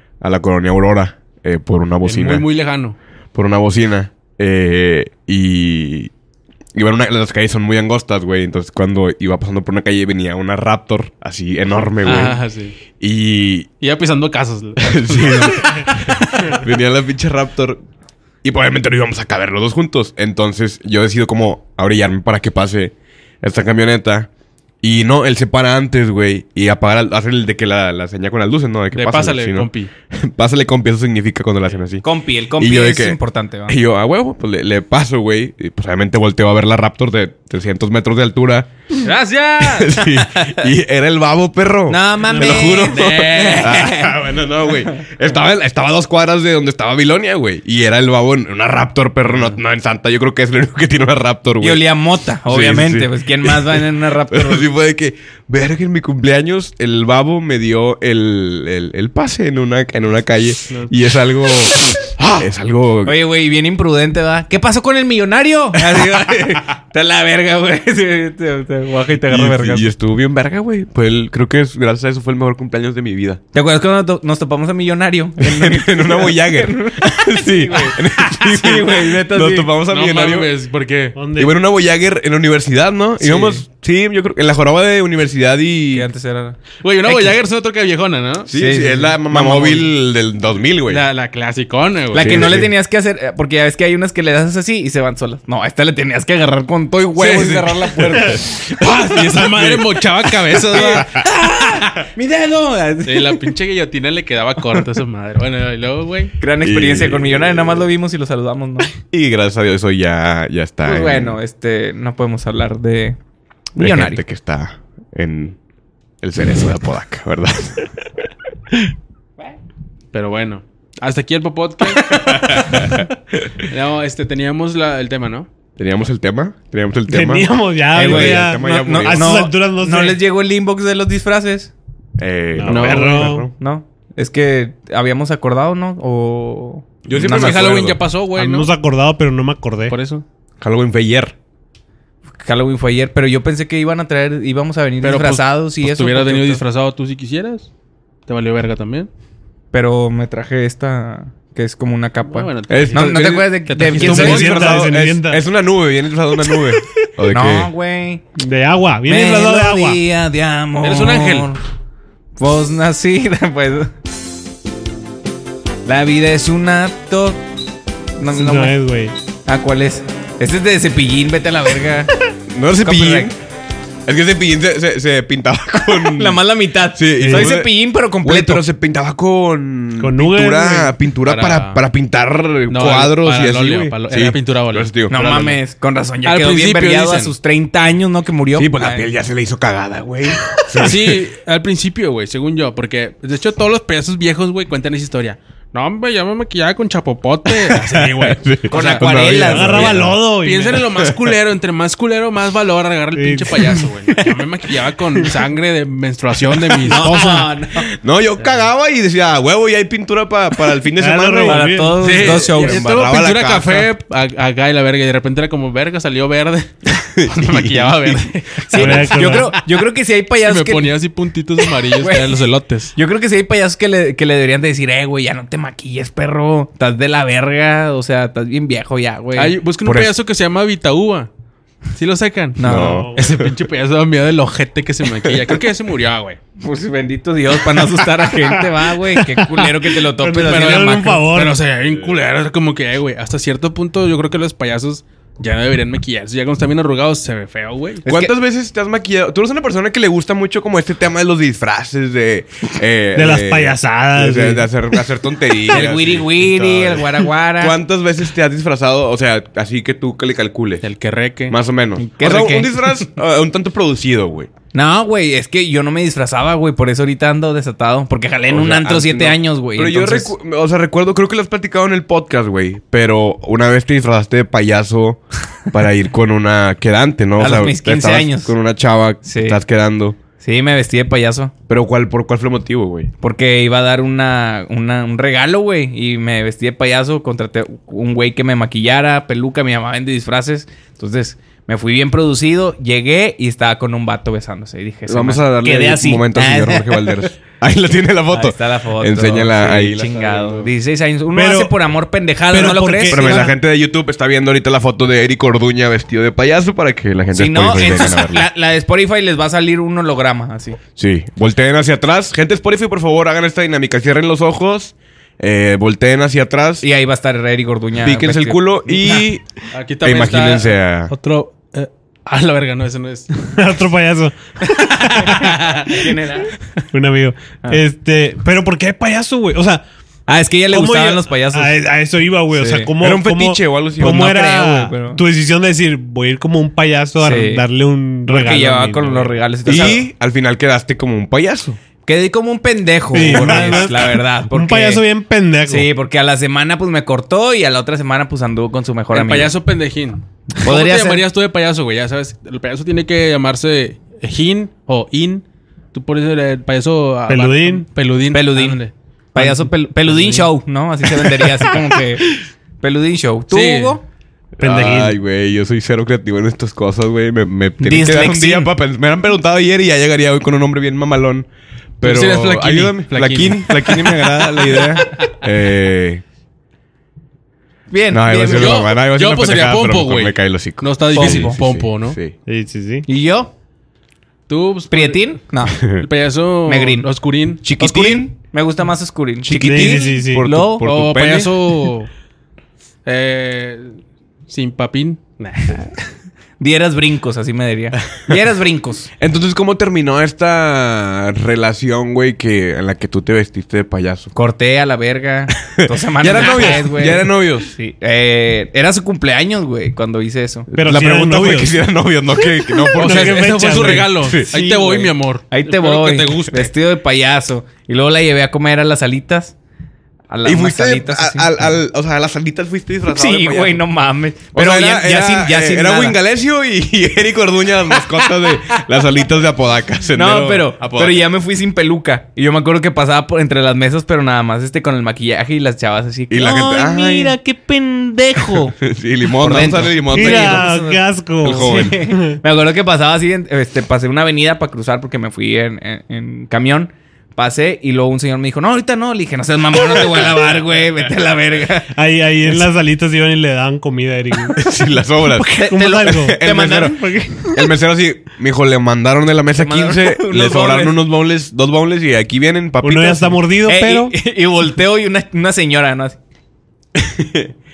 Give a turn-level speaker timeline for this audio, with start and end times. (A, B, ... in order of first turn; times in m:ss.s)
0:00.2-0:02.5 A
0:02.0-0:03.0 B
0:03.3-0:06.1 A
0:06.7-0:12.4 A
0:12.0-0:12.8 B
0:13.0-0:13.7 A
0:13.8-0:16.6 B
0:14.8-0:17.8 A
0:18.4-0:24.3 A
0:24.8-0:32.0 A
0:28.9-0:29.9 B
0:32.0-0:33.8 C
0:32.6-0:38.7 A
0:39.0-0:40.0 B
0:39.6-0:51.8 A
0:40.4-0:40.6 C
0:41.9-0:44.1 C
0:42.3-0:43.8 B
0:51.6-0:54.7 C
0:52.5-1:03.1 A
1:03.0-1:09.8 C
1:09.3-1:13.4 A
1:13.5-1:19.7 C
1:15.4-1:20.5 A
1:19.9-1:21.2 B
1:21.1-1:21.5 D
1:21.4-1:26.1 A
1:23.2-1:23.6 B
1:25.9-1:27.4 C
1:26.8-1:28.5 B
1:28.5-1:31.0 A
1:28.5-1:29.9 C
1:30.9-1:32.6 B
1:32.1-1:38.4 C
1:32.1-1:32.7 A
1:37.2-1:41.1 B
1:38.1-1:39.9 A
1:40.7-1:43.5 C
1:40.7-1:41.2 A
1:43.0-1:46.3 B
1:46.4-1:48.9 C
1:46.6-1:47.9 A
1:49.1-1:51.4 A
1:50.8-1:53.2 C
1:53.7-1:54.2 C
1:53.8-1:55.6 A
1:56.2-1:57.9 A
2:00.1-2:02.2 B
2:02.1-2:03.4 A
2:03.7-2:05.5 B
2:05.8-2:09.4 A
2:07.1-2:10.2 D
2:07.9-2:11.7 C
2:12.2-2:13.5 A
2:12.5-2:13.5 D
2:12.6-2:13.4 B
2:13.5-2:17.7 C
2:17.0-2:18.0 A
2:17.1-2:18.7 B
2:18.3-2:19.9 D
2:19.9-2:20.2 B
2:20.6-2:21.3 A
2:22.4-2:26.6 C
2:25.0-2:27.7 B
2:28.3-2:29.1 B
2:29.7-2:34.8 C
2:32.3-2:34.8 B
2:32.7-2:37.7 A
2:33.9-2:35.4 D
2:37.3-2:38.2 C
2:38.4-2:40.0 D
2:39.0-2:41.6 C
2:40.8-2:41.5 B
2:42.4-2:43.9 C
2:45.8-2:47.4 C
2:48.2-2:48.8 C
2:48.3-2:49.1 D
2:49.4-2:52.1 C
2:52.5-2:53.3 A
2:52.8-2:53.3 C
2:54.0-2:56.4 A
2:56.1-2:58.6 C
2:56.9-3:05.6 A
2:57.2-2:57.5 D
3:00.0-3:00.9 D
3:01.2-3:01.8 B
3:02.7-3:04.9 B
3:05.1-3:09.1 C
3:06.2-3:07.3 B
3:08.5-3:11.2 A
3:10.8-3:18.4 B
3:17.7-3:20.2 A
3:18.7-3:20.0 C
3:19.0-3:20.9 D
3:20.4-3:27.4 B
3:20.9-3:21.3 A
3:23.1-3:23.8 D
3:26.8-3:27.9 C
3:27.0-3:27.4 D
3:27.8-3:33.9 A
3:31.0-3:32.2 D
3:31.4-3:33.1 C
3:32.0-3:39.4 B
3:37.0-3:39.1 A
3:38.7-3:41.0 C
3:38.7-3:39.6 D
3:40.4-3:42.9 B
3:41.9-3:42.4 C
3:42.9-3:49.6 C
3:49.4-3:51.3 B
3:49.8-3:50.1 A
3:51.9-3:56.4 B
3:52.6-3:53.1 C
3:52.6-3:53.5 A
3:52.7-3:53.2 D
3:55.2-3:55.6 A
3:56.6-4:01.3 C
3:58.2-4:01.6 D
4:00.4-4:08.0 B
4:08.0-4:08.3 C
4:08.0-4:17.0 A
4:13.1-4:14.6 D
4:15.7-4:17.8 C
4:17.6-4:20.8 A
4:20.8-4:21.6 B
4:21.5-4:24.5 A
4:22.0-4:23.0 C
4:24.7-4:30.3 C
4:28.5-4:40.2 A
4:37.4-4:38.5 C
4:39.2-4:39.6 C
4:40.4-4:41.5 C
4:41.7-4:43.1 A
4:43.2-4:57.3 C
4:55.0-5:00.7 A
4:58.3-5:03.4 C
5:01.3-5:01.7 D
5:02.5-5:03.5 D
5:03.0-5:08.5 A
5:07.3-5:10.8 C
5:11.0-5:16.8 A
5:16.8-5:19.2 C
5:18.0-5:19.4 A
5:19.7-5:23.4 B
5:20.0-5:21.1 A
5:23.4-5:25.6 D
5:25.0-5:26.0 B
5:25.8-5:26.5 C
5:26.9-5:29.8 D
5:30.3-5:31.7 C
5:30.7-5:39.3 D
5:32.5-5:32.9 C
5:33.0-5:34.3 A
5:34.0-5:35.2 C
5:37.2-5:37.6 C
5:38.3-5:40.0 C
5:39.6-5:41.8 A
5:42.0-5:45.0 C
5:43.1-5:45.9 D
5:43.2-5:43.8 A
5:45.7-5:49.5 C
5:49.1-6:00.5 B
5:50.6-5:51.2 C
5:57.3-5:57.8 D
5:58.3-5:58.8 C
5:59.3-6:04.0 C
6:03.5-6:04.0 B
6:04.6-6:11.5 A
6:04.6-6:05.2 D
6:07.8-6:08.7 C
6:12.0-6:16.2 A
6:12.0-6:14.0 B
6:14.4-6:15.1 C
6:17.9-6:18.8 C
6:18.1-6:22.3 A
6:18.4-6:22.2 B
6:21.1-6:21.6 C
6:22.4-6:23.0 D
6:23.0-6:23.5 C
6:24.5-6:27.6 B
6:24.9-6:25.8 C
6:26.6-6:27.1 C
6:27.6-6:28.3 A
6:27.6-6:30.9 C
6:29.4-6:31.7 A
6:29.6-6:30.4 D
6:30.8-6:32.1 B
6:33.0-6:35.9 B
6:36.6-6:39.1 C
6:39.2-6:44.3 A
6:44.3-6:50.7 C
6:45.7-6:47.7 A
6:50.7-6:54.5 A
6:50.7-6:51.8 D
6:52.9-6:56.7 B
6:53.0-6:54.2 D
6:54.5-6:59.5 C
7:00.3-7:01.8 C
7:00.4-7:03.8 A
7:03.1-7:06.2 C
7:04.5-7:11.2 A
7:10.1-7:18.8 C
7:16.3-7:17.4 A
7:18.5-7:20.6 A
7:19.4-7:31.9 C
7:20.1-7:22.4 D
7:21.4-7:22.0 A
7:31.9-7:34.6 D
7:34.5-7:43.4 A
7:35.4-7:37.4 C
7:35.5-7:36.4 D
7:39.6-7:41.0 C
7:42.8-7:44.1 D
7:43.6-7:46.2 C
7:46.9-7:47.5 A